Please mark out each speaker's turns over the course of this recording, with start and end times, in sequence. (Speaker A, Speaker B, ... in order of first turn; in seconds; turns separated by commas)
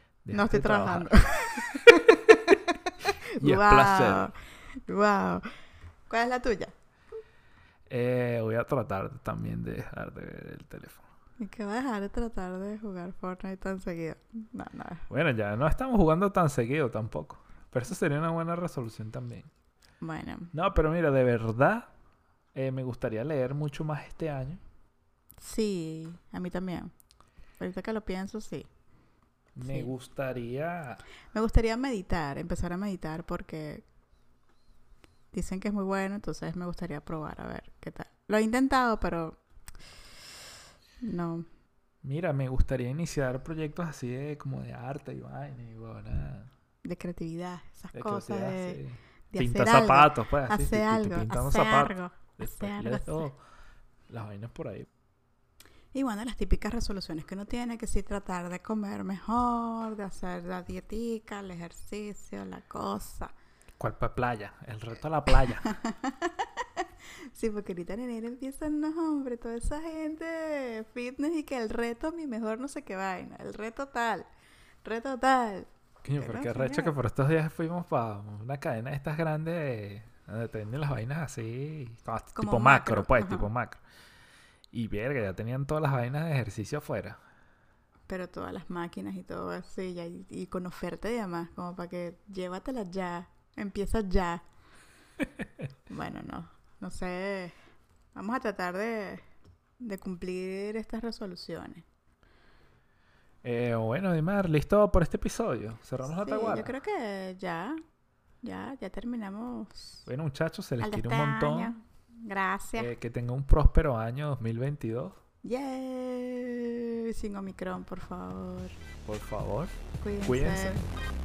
Speaker A: 0.2-2.3, Speaker B: 0.3-4.3, Speaker A: 3.4-4.3, Speaker B: 4.9-5.5, Speaker B: 6.1-6.7, Speaker A: 7.9-11.0, Speaker B: 11.4-15.1, Speaker A: 15.1-19.5, Speaker B: 20.0-20.5, Speaker A: 20.5-21.9, Speaker A: 22.5-24.6, Speaker B: 25.4-26.9, Speaker B: 27.6-28.7, Speaker A: 29.6-31.0, Speaker B: 29.6-29.9, Speaker B: 31.3-33.8, Speaker B: 35.3-39.4, Speaker B: 41.0-41.5, Speaker A: 42.0-46.5, Speaker B: 46.8-48.8, Speaker A: 47.9-53.4, Speaker B: 49.3-53.2, Speaker A: 54.1-54.9, Speaker B: 55.9-63.3, Speaker A: 63.8-65.7, Speaker B: 65.6-74.3, Speaker B: 74.8-76.9, Speaker A: 76.0-83.8, Speaker B: 82.3-83.5, Speaker A: 84.7-87.2, Speaker B: 88.1-94.4, Speaker B: 95.9-97.5, Speaker B: 98.1-99.2, Speaker B: 99.8-101.8, Speaker A: 103.4-106.7, Speaker B: 106.1-107.8, Speaker B: 108.4-110.1, Speaker A: 110.1-111.7, Speaker B: 110.8-112.9, Speaker A: 112.8-115.2, Speaker B: 115.4-118.8, Speaker A: 119.0-120.8, Speaker B: 120.0-120.8